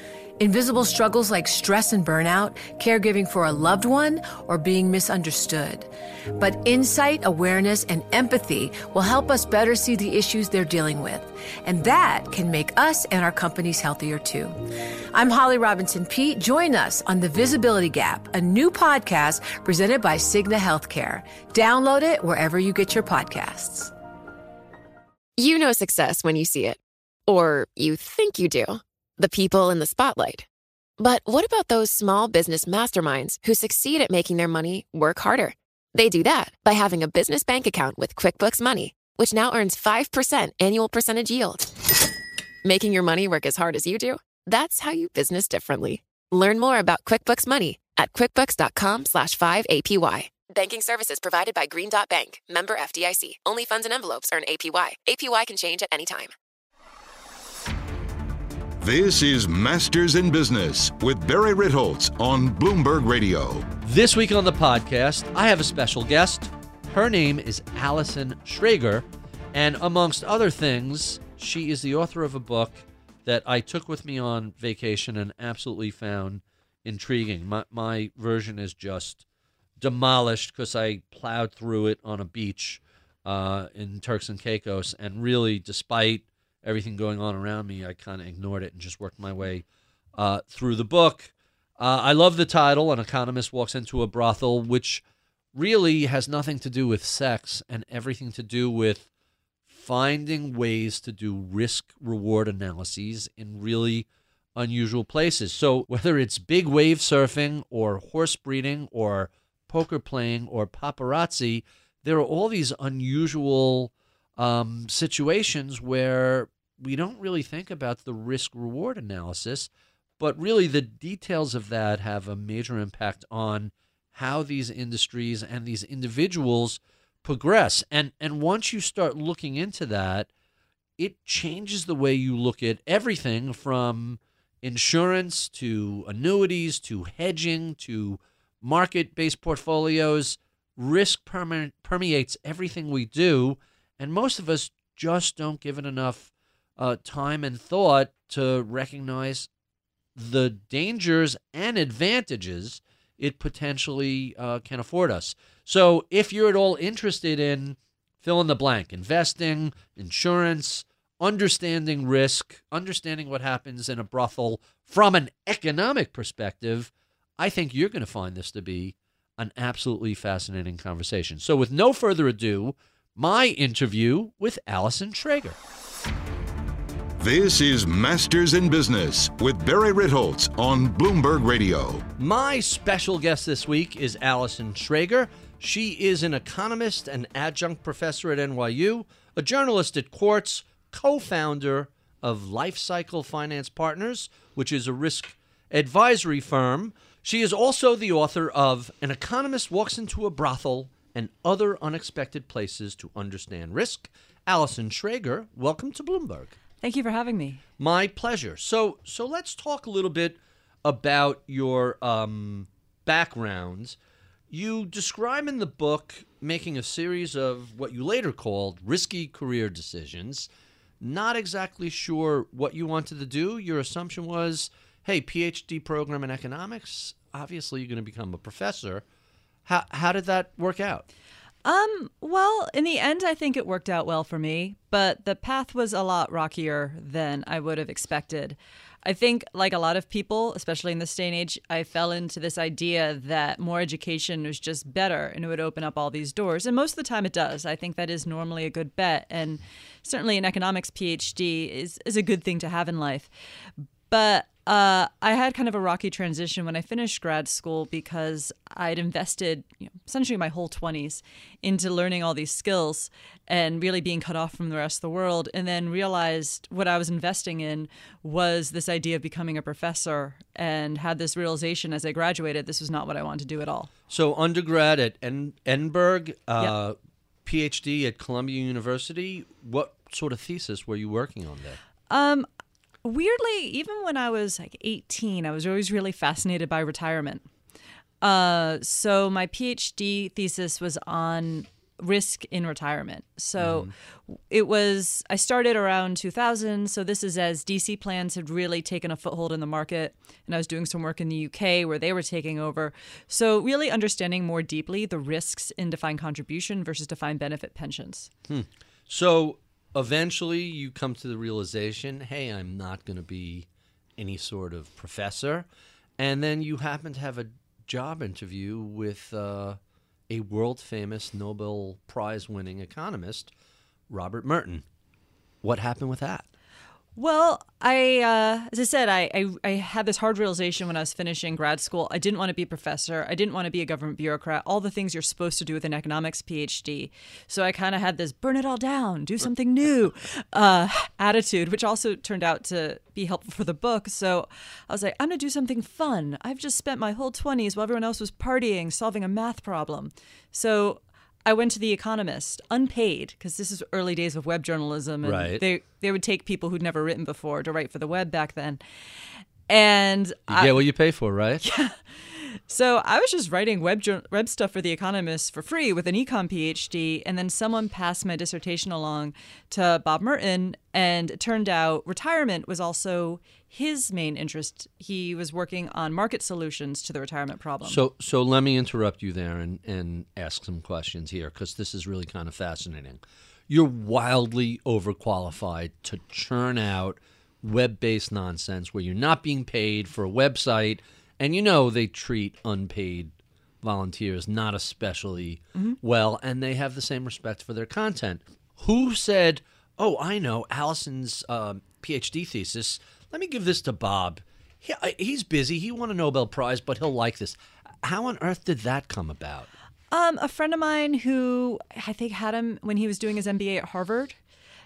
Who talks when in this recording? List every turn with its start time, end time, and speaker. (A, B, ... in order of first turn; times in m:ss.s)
0:00.4-0:14.6 A
0:15.1-0:23.9 A
0:25.4-0:30.5 B
0:31.0-0:41.9 B
0:42.6-0:56.3 B
0:58.8-1:03.7 C
1:03.8-1:19.2 D
1:19.8-1:35.0 D
1:35.5-1:39.1 D
1:39.7-2:10.3 D
2:11.0-2:29.5 D
2:30.2-2:55.6 D
2:57.2-3:02.1 C
3:02.2-3:26.6 D
3:26.8-3:27.6 E
3:27.8-3:34.0 D
3:34.5-3:40.5 D
3:41.0-3:49.0 D
3:49.7-3:51.1 D
3:51.6-4:13.3 E
4:14.1-4:33.9 E
4:34.1-4:41.8 D
4:42.1-4:42.5 E
4:43.0-4:47.5 E
4:48.2-5:08.3 E
4:53.6-4:53.9 D
5:08.5-5:23.5 D
5:24.1-5:24.8 D
5:25.6-5:26.5 D
5:27.2-5:58.8 E
5:55.2-5:55.6 D
5:59.7-6:00.8 E
6:00.5-6:01.6 D
6:01.6-6:18.0 E
6:17.8-6:49.7 D
6:50.1-6:54.4 E